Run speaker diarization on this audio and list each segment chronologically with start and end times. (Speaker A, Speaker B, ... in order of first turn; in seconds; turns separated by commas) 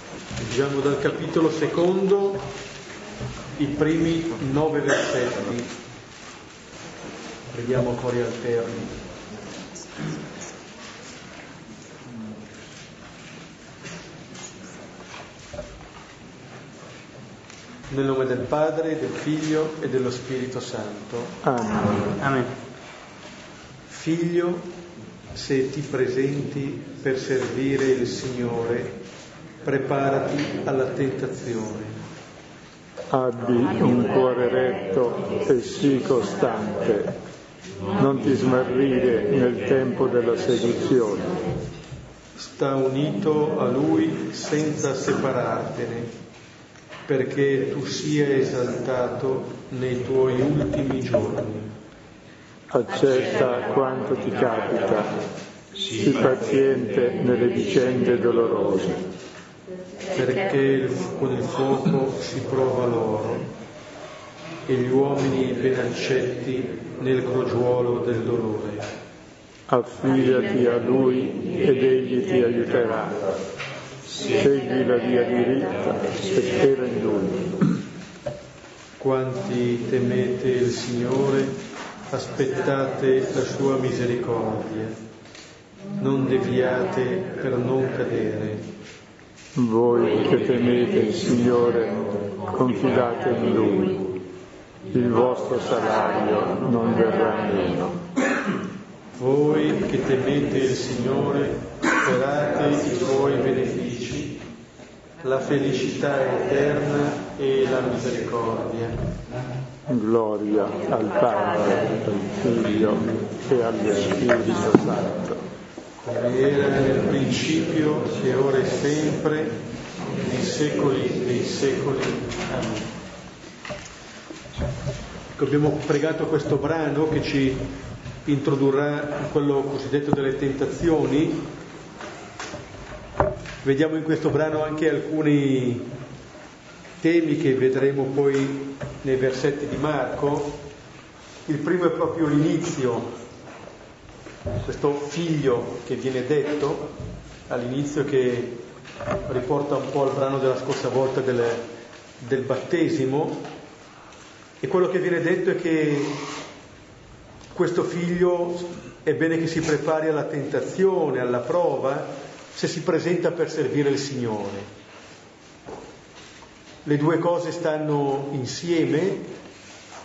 Speaker A: 0.4-2.5, Speaker A: 3.6-5.7, Speaker A: 7.5-9.0, Speaker A: 17.9-21.4, Speaker B: 21.4-22.5, Speaker A: 23.9-24.7, Speaker A: 25.3-28.9, Speaker A: 29.6-32.0, Speaker B: 33.1-37.1, Speaker B: 38.0-41.4, Speaker A: 42.4-46.1, Speaker A: 47.1-51.7, Speaker B: 52.7-55.2, Speaker B: 55.8-59.1, Speaker A: 60.1-63.5, Speaker A: 64.7-68.9, Speaker B: 69.7-73.2, Speaker B: 74.1-77.8, Speaker A: 79.0-81.6, Speaker A: 82.1-85.0, Speaker A: 86.0-88.7, Speaker B: 89.5-94.0, Speaker B: 94.9-98.0, Speaker A: 99.2-104.4, Speaker A: 105.2-109.0, Speaker B: 109.9-115.4, Speaker A: 116.0-119.6, Speaker A: 120.2-122.9, Speaker A: 125.4-127.7, Speaker A: 128.3-131.5, Speaker A: 133.6-135.9, Speaker A: 137.0-140.6, Speaker A: 141.5-143.1, Speaker A: 144.6-146.9, Speaker A: 147.5-148.6, Speaker A: 149.3-151.6, Speaker A: 152.2-153.4, Speaker A: 154.6-156.2, Speaker A: 157.5-164.7, Speaker A: 166.8-169.3